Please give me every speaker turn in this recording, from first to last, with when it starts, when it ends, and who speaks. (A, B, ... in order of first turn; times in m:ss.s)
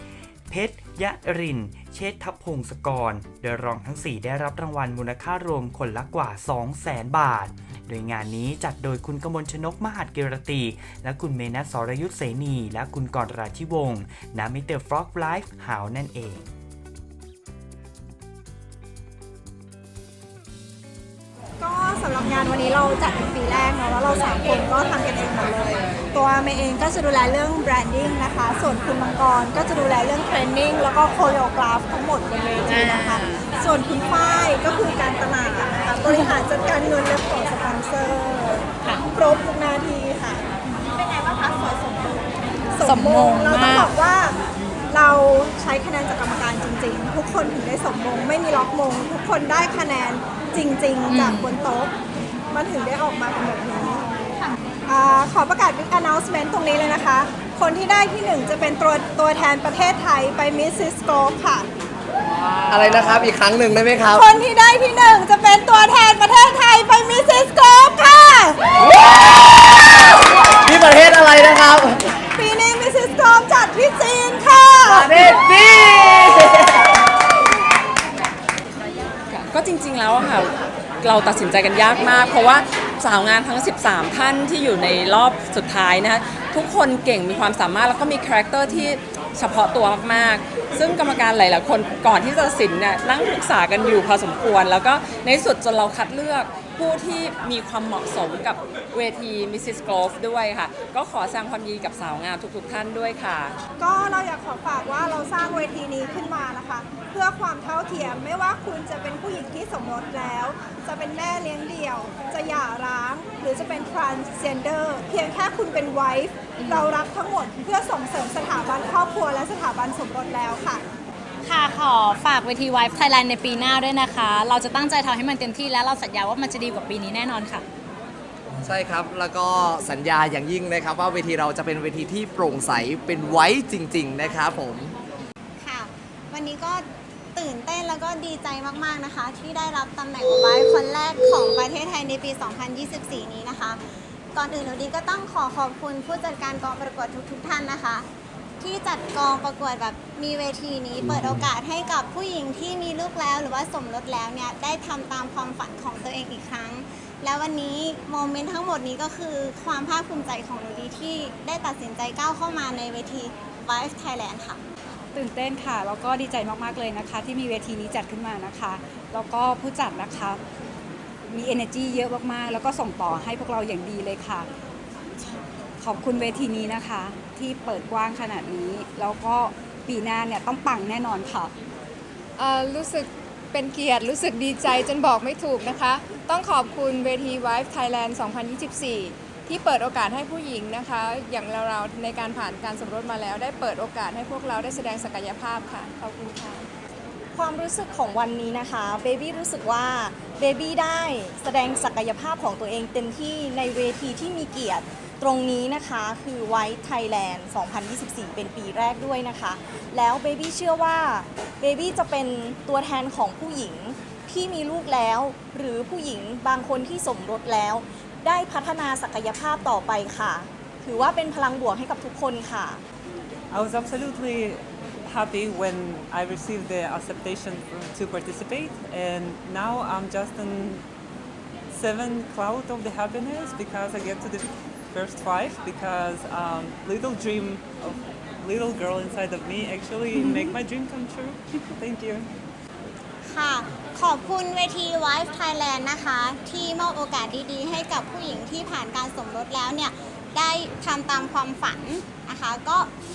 0:00.5-0:16.5 A
0:21.6-0:44.4 B
0:32.7-0:33.3 C
0:42.8-0:43.9 C
0:44.9-0:51.9 B
0:51.1-0:51.5 C
0:52.5-0:54.1 B
0:54.9-1:01.7 B
1:02.7-1:04.2 D
1:04.2-1:08.6 B
1:10.6-1:12.0 D
1:12.4-1:15.1 B
1:14.9-1:16.7 D
1:19.3-1:43.6 E
1:43.8-2:00.8 B
1:56.6-1:56.9 C
2:01.4-2:07.6 C
2:08.6-2:14.9 D
2:15.6-2:16.8 F
2:17.4-2:23.8 F
2:24.3-2:28.1 F
2:28.6-2:44.6 F
2:45.1-2:50.4 G
2:51.3-2:54.5 G
2:55.8-3:01.5 G
3:02.4-3:16.6 H
3:17.3-3:42.8 I
3:43.5-3:50.8 J
3:51.7-4:02.3 J
4:03.2-4:12.9 F